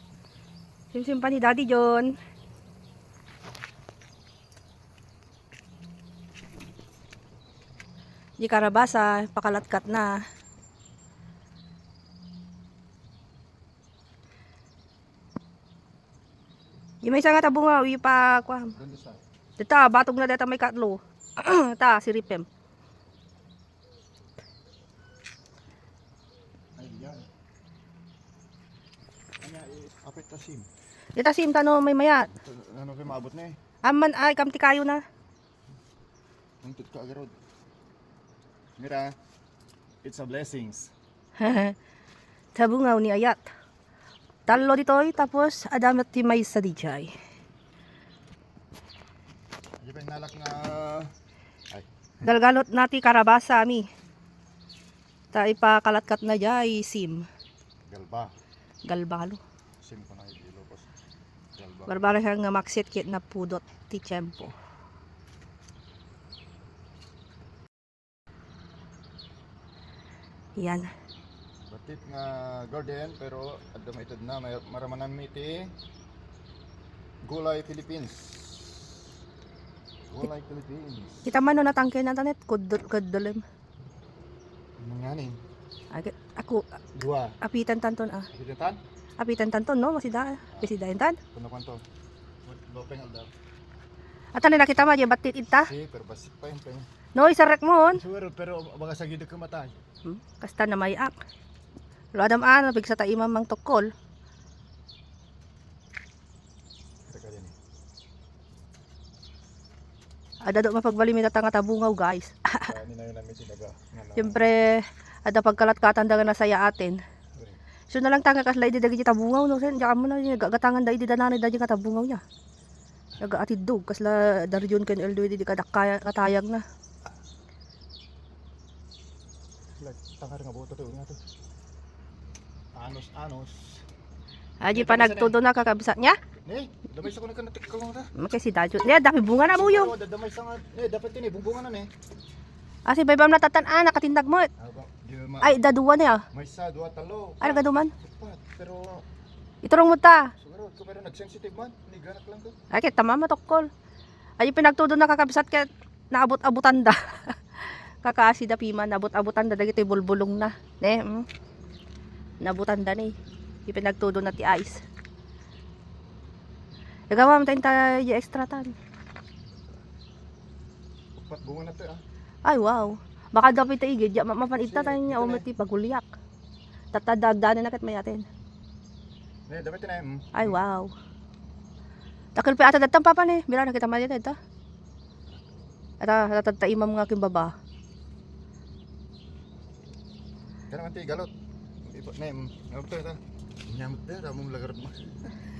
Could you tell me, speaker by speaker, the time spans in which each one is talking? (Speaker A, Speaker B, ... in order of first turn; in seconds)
Speaker A: 0.9-2.2, 8.4-10.2, 17.0-18.8, 19.6-22.5, 31.2-32.3, 33.8-35.0, 41.4-41.8, 42.6-43.5, 44.5-47.1, 52.2-53.9, 55.3-57.3, 58.9-59.4, 61.9-64.5, 70.6-70.9, 81.3-83.4, 85.9-86.7, 87.4-88.3, 89.2-91.2, 94.3-95.7, 97.2-98.0, 100.0-101.2, 102.1-103.9, 110.4-112.7, 114.2-117.0, 117.9-122.2, 123.2-126.6, 134.6-136.2, 138.2-139.9, 142.9-144.5, 145.4-146.2, 147.4-147.9, 149.6-150.3, 152.7-153.7, 154.4-161.3, 162.4-163.1, 163.7-164.8, 167.1-168.7, 172.5-176.1, 176.9-178.2, 180.3-180.9, 182.4-184.3, 186.0-187.5
Speaker B: 18.8-19.2, 26.8-27.3, 29.4-30.7, 32.3-33.6, 36.6-37.4, 38.8-39.1, 40.0-40.9, 49.8-51.1, 57.9-58.3, 59.8-60.9, 61.5-62.2, 71.7-75.7, 77.3-78.9, 80.1-81.3, 84.8-85.4, 86.9-87.4, 88.3-88.8, 91.3-91.8, 92.5-93.3, 95.5-96.9, 97.9-99.7, 107.1-107.5, 112.6-114.5, 129.8-131.2, 132.8-133.8, 134.7-135.4, 136.4-138.1, 139.5-141.9, 144.6-145.6, 146.3-149.0, 150.4-152.6, 169.5-169.8, 171.2-172.0, 174.6-175.5, 179.5-180.6, 190.7-191.3, 191.8-195.1